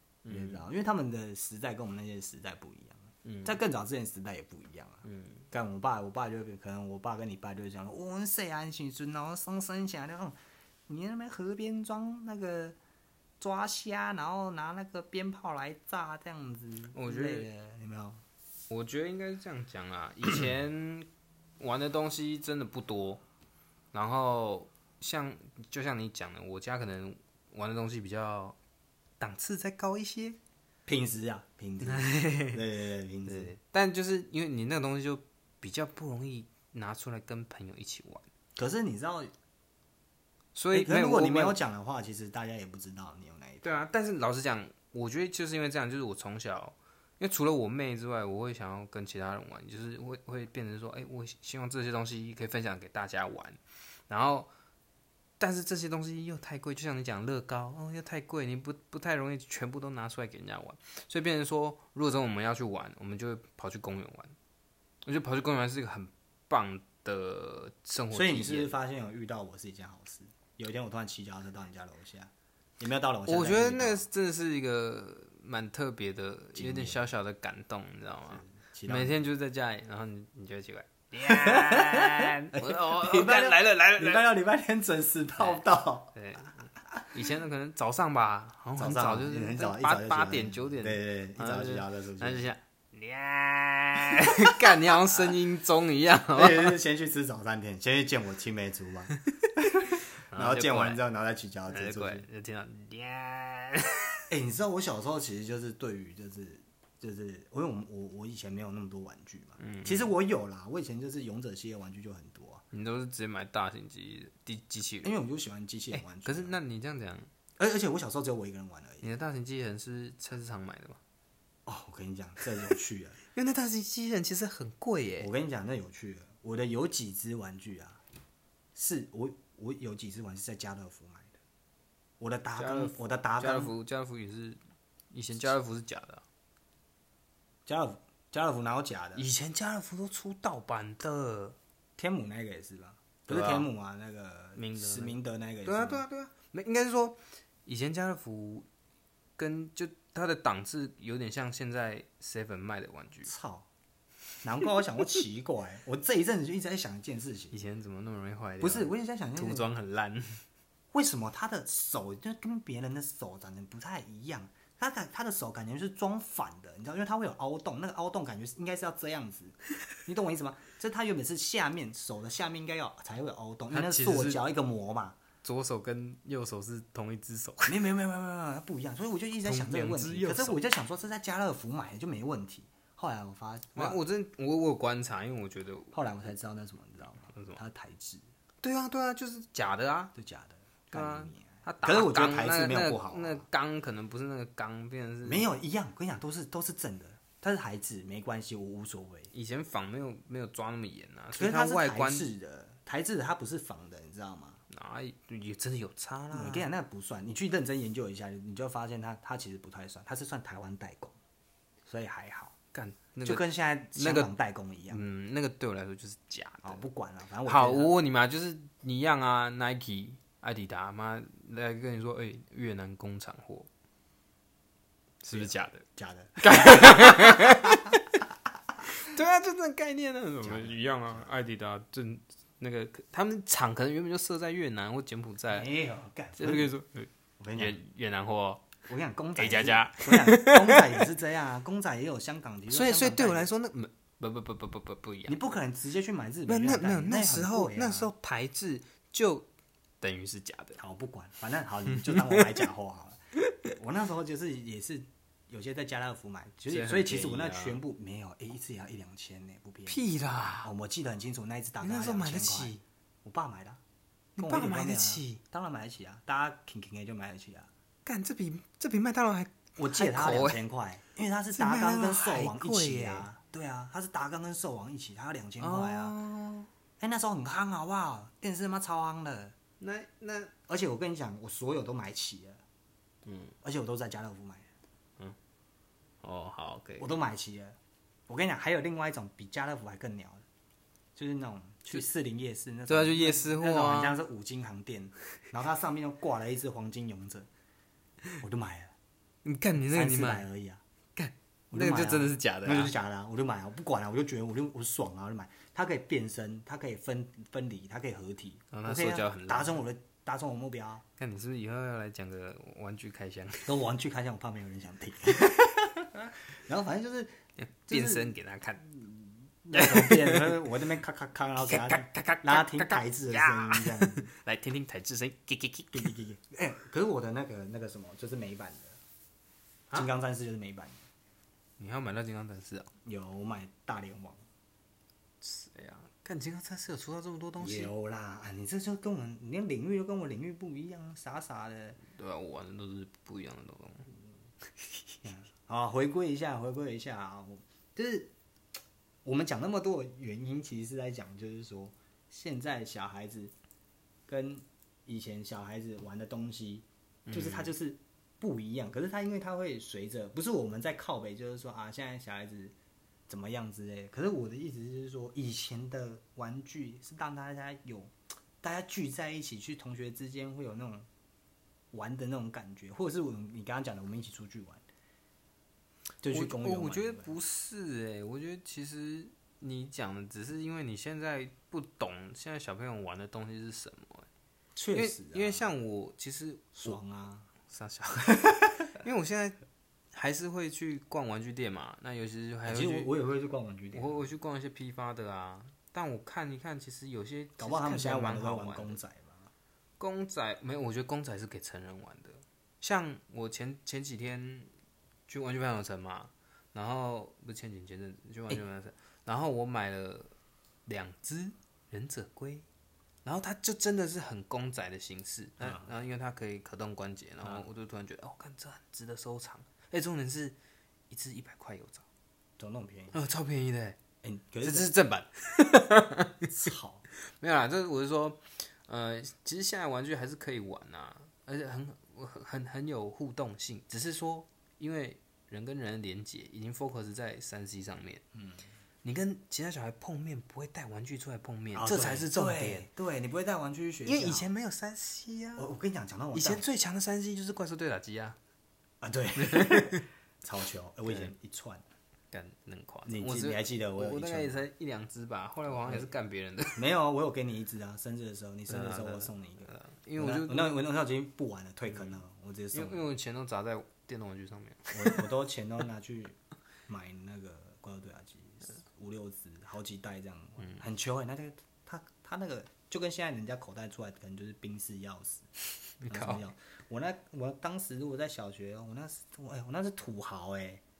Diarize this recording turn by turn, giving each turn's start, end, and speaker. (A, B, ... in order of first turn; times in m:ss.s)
0:00.2-0:00.6 A
0:00.3-0:10.4 B
0:03.2-0:03.5 A
0:05.0-0:05.5 A
0:10.9-0:12.8 B
0:13.4-0:18.2 B
0:16.9-0:17.5 A
0:18.7-0:21.1 A
0:21.6-0:23.2 A
0:23.9-0:28.6 A
0:29.2-0:30.4 A
0:30.8-0:33.5 B
0:31.8-0:32.6 A
0:33.2-0:38.2 A
0:38.6-0:39.3 B
0:40.5-0:41.6 A
0:40.7-0:43.7 B
0:43.6-0:54.5 A
0:55.4-1:04.3 A
1:05.0-1:08.8 A
1:08.1-1:14.0 B
1:13.2-1:24.2 A
1:16.5-1:17.0 B
1:18.3-1:19.2 B
1:21.2-1:26.1 B
1:26.1-1:36.8 A
1:28.8-1:32.5 B
1:36.3-1:42.3 B
1:40.3-1:41.0 A
1:41.7-1:44.2 A
1:44.3-1:52.6 B
1:49.6-1:50.1 A
1:52.7-1:55.1 A
1:55.0-1:56.6 B
1:55.9-1:57.3 A
1:57.6-1:59.1 B
1:59.0-2:01.0 A
2:01.6-2:03.2 B
2:03.3-2:05.3 A
2:05.2-2:08.0 B
2:08.7-2:11.4 B
2:12.2-2:13.7 B
2:12.5-2:14.6 A
2:15.1-2:16.2 A
2:17.6-2:19.2 B
2:19.1-2:21.6 A
2:22.0-2:26.0 B
2:23.3-2:23.7 A
2:24.6-2:28.6 A
2:29.4-2:33.3 A
2:33.2-2:33.7 B
2:34.4-2:37.5 B
2:37.5-2:40.4 A
2:38.6-2:39.7 B
2:40.9-2:55.2 B
2:53.7-2:54.4 A
2:55.4-2:57.8 A
2:57.6-3:04.0 B
2:59.4-3:00.6 A
3:03.7-3:05.9 A
3:05.9-3:08.2 B
3:07.3-3:07.6 A
3:08.6-3:10.1 A
3:10.1-3:13.4 B
3:10.9-3:15.4 A
3:15.2-3:19.3 B
3:19.3-3:22.3 A
3:21.3-3:24.6 B
3:24.7-3:26.7 A
3:26.3-3:31.2 B
3:31.8-3:32.5 B
3:32.7-3:34.3 A
3:33.2-3:35.0 B
3:34.9-3:36.8 A
3:36.6-3:37.9 B
3:37.4-3:43.7 A
3:45.2-3:45.8 A
3:45.3-3:47.7 B
3:46.4-3:48.0 A
3:48.9-3:55.7 A
3:50.4-3:51.2 B
3:55.5-3:56.7 B
3:56.4-3:58.7 A
3:57.4-3:57.8 B
3:58.9-4:03.5 B
3:59.4-4:01.0 A
4:02.7-4:05.4 A
4:05.3-4:08.1 B
4:06.5-4:09.5 A
4:10.0-4:10.8 A
4:10.8-4:13.2 B
4:11.9-4:12.6 A
4:13.7-4:20.0 B
4:16.7-4:17.8 A
4:19.8-4:20.7 A
4:20.6-4:22.7 B
4:21.8-4:22.8 A
4:23.2-4:23.8 B
4:24.4-4:25.4 A
4:24.4-4:27.7 B
4:28.0-4:30.6 A
4:29.8-4:36.2 B
4:31.5-4:33.3 A
4:35.6-4:36.7 A
4:37.0-4:39.5 B
4:39.8-4:40.5 A
4:40.7-4:42.6 B
4:43.2-4:43.5 A
4:43.6-4:44.7 B
4:46.2-4:47.1 A
4:47.0-4:47.8 B
4:48.3-4:50.4 B
4:51.2-4:57.5 B
4:52.9-4:54.2 A
4:58.4-4:58.9 B
4:59.4-5:00.4 A
4:59.9-5:00.8 B
5:01.2-5:02.9 A
5:01.7-5:11.0 B
5:08.7-5:09.8 A
5:11.2-5:13.7 A
5:13.6-5:18.3 B
5:17.6-5:18.9 A
5:18.9-5:24.3 B
5:19.7-5:20.6 A
5:21.6-5:26.2 A
5:25.9-5:29.0 B
5:29.9-5:31.0 B
5:31.8-5:32.9 A
5:33.0-5:34.4 B
5:35.4-5:37.9 A
5:37.6-5:42.0 B
5:42.0-5:44.1 A
5:45.2-5:48.3 B
5:49.2-5:53.5 B
5:54.3-6:02.7 B
5:57.2-5:57.7 A
6:03.3-6:11.1 B
6:11.9-6:14.8 B
6:16.2-6:17.3 B
6:16.3-6:24.3 A
6:24.8-6:25.7 B
6:24.9-6:27.0 A
6:26.8-6:27.5 B
6:27.6-6:29.6 A
6:28.3-6:28.8 B
6:30.1-6:33.1 A
6:32.6-6:34.2 B
6:33.9-6:39.0 A
6:37.6-6:39.5 B
6:40.0-6:44.7 A
6:45.3-6:50.3 A
6:50.8-6:52.6 A
6:53.2-7:00.6 A
7:01.1-7:02.0 A
7:02.6-7:03.2 B
7:03.1-7:04.0 A
7:04.2-7:04.9 B
7:04.6-7:06.5 A
7:06.5-7:07.0 B
7:07.3-7:18.2 A
7:18.3-7:18.6 B
7:19.0-7:22.9 A
7:21.7-7:24.5 B
7:24.0-7:25.7 A
7:25.6-7:26.6 B
7:26.3-7:28.4 A
7:29.0-7:31.8 B
7:29.4-7:30.0 A
7:32.3-7:36.8 A
7:33.0-7:34.6 B
7:36.7-7:43.0 B
7:38.7-7:40.8 A
7:41.9-7:42.2 A
7:42.7-7:45.3 A
7:44.9-7:55.5 B
7:55.9-7:56.4 A
7:56.0-8:00.8 B